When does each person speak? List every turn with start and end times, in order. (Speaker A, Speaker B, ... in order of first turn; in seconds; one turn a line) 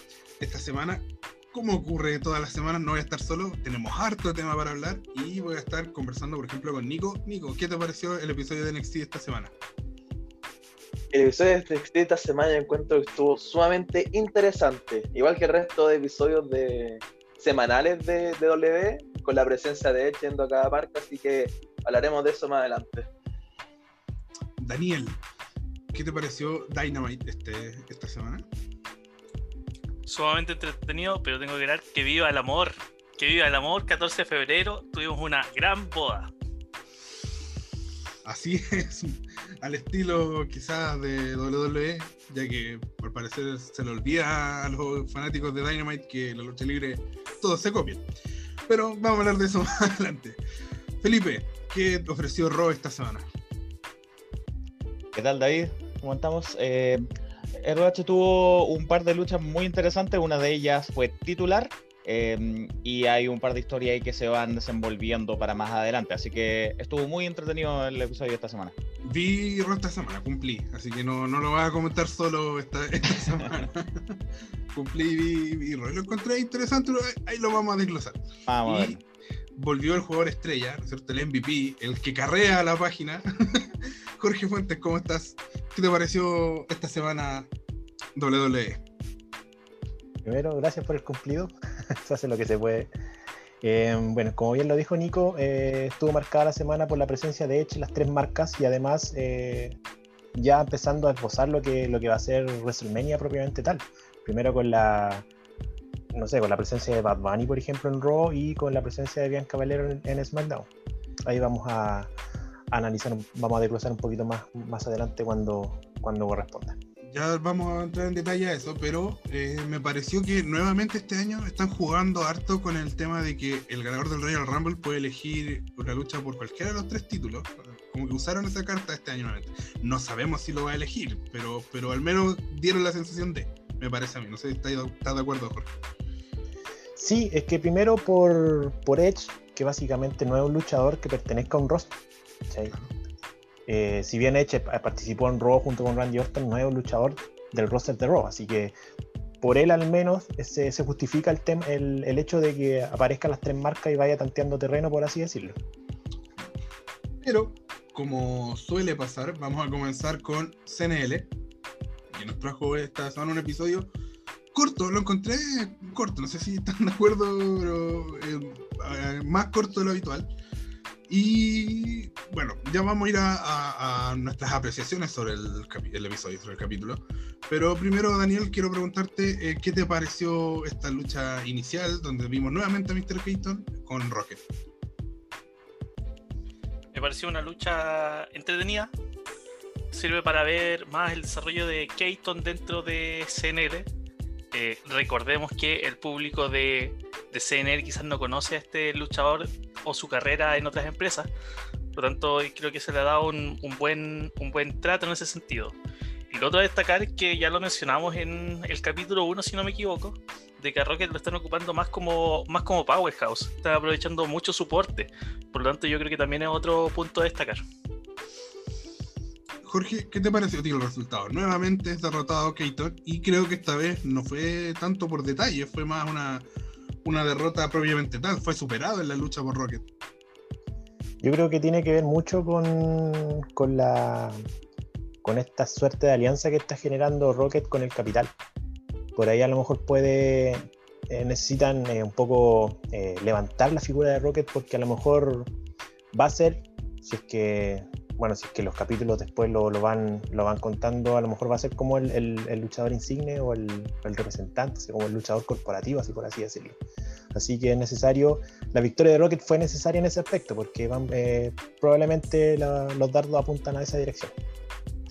Speaker A: 0.4-9.5
Speaker B: 11.1-23.1
Speaker A: 24.6-25.2
Speaker A: 25.9-28.4
Speaker C: 30.1-36.3
Speaker A: 38.2-48.1
Speaker A: 48.7-50.4
Speaker A: 51.0-53.3
Speaker D: 55.1-68.7
Speaker A: 69.0-74.2
Speaker A: 74.7-79.0
Speaker D: 78.5-79.0
Speaker A: 79.5-87.5
Speaker A: 88.2-88.8
Speaker E: 90.2-92.9
Speaker E: 93.6-99.8
Speaker E: 100.3-105.3
Speaker E: 106.1-110.7
Speaker E: 111.3-112.1
Speaker E: 112.7-116.8
Speaker A: 117.0-135.7
Speaker E: 137.0-142.0
Speaker E: 142.5-142.8
Speaker E: 143.7-148.7
Speaker E: 149.4-155.6
Speaker A: 157.2-161.3
Speaker A: 162.1-163.9
Speaker A: 164.5-170.3
Speaker A: 171.1-184.4
Speaker C: 186.9-188.9
Speaker C: 189.9-193.9
Speaker C: 194.5-201.3
Speaker C: 201.9-205.8
Speaker C: 206.3-217.6
Speaker A: 219.6-226.5
Speaker A: 227.0-229.9
Speaker E: 231.2-234.4
Speaker E: 235.2-238.3
Speaker E: 239.2-245.5
Speaker E: 246.1-256.8
Speaker E: 257.3-264.3